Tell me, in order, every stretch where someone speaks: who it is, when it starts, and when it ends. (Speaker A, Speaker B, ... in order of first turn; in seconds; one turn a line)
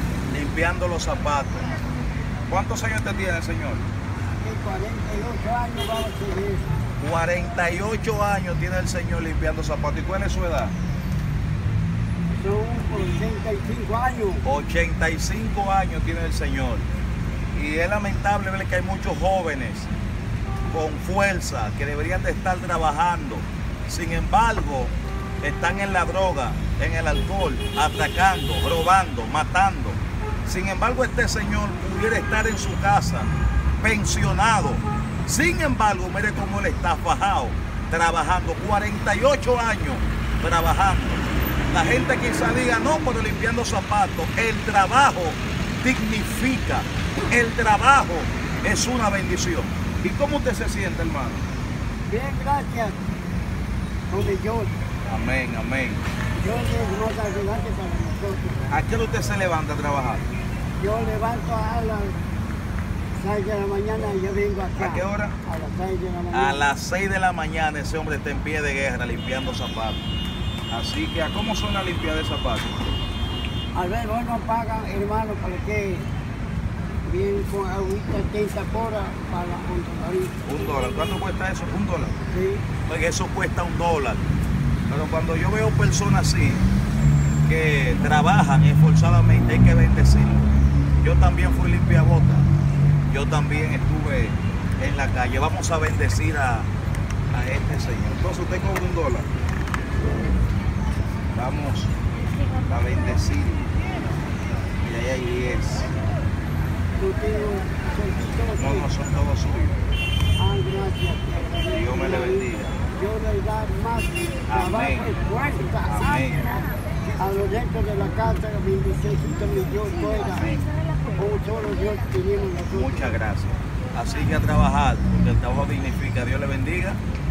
Speaker A: 0.3-1.7
Speaker A: 2.5-3.9
Speaker B: 4.4-6.7
Speaker A: 7.0-10.7
Speaker B: 12.3-14.4
Speaker A: 14.4-16.9
Speaker A: 17.5-19.9
Speaker A: 20.7-51.5
Speaker B: 52.1-53.0
Speaker B: 54.1-54.7
Speaker A: 55.1-56.0
Speaker B: 56.4-58.7
Speaker A: 58.7-60.3
Speaker B: 60.8-62.2
Speaker B: 63.2-66.7
Speaker A: 64.8-65.3
Speaker A: 66.3-70.0
Speaker A: 70.7-72.8
Speaker B: 73.8-76.1
Speaker B: 77.1-80.4
Speaker A: 80.5-82.2
Speaker B: 82.3-82.6
Speaker A: 82.9-84.2
Speaker A: 84.9-86.7
Speaker A: 87.5-90.5
Speaker A: 91.0-92.5
Speaker A: 93.1-96.7
Speaker A: 97.3-99.3
Speaker A: 101.3-101.9
Speaker A: 102.7-103.7
Speaker A: 104.8-105.9
Speaker B: 107.0-108.9
Speaker A: 108.6-109.8
Speaker B: 110.4-116.6
Speaker A: 111.7-112.8
Speaker A: 114.5-115.1
Speaker A: 115.9-116.6
Speaker B: 117.2-120.6
Speaker B: 121.2-123.2
Speaker A: 122.7-127.0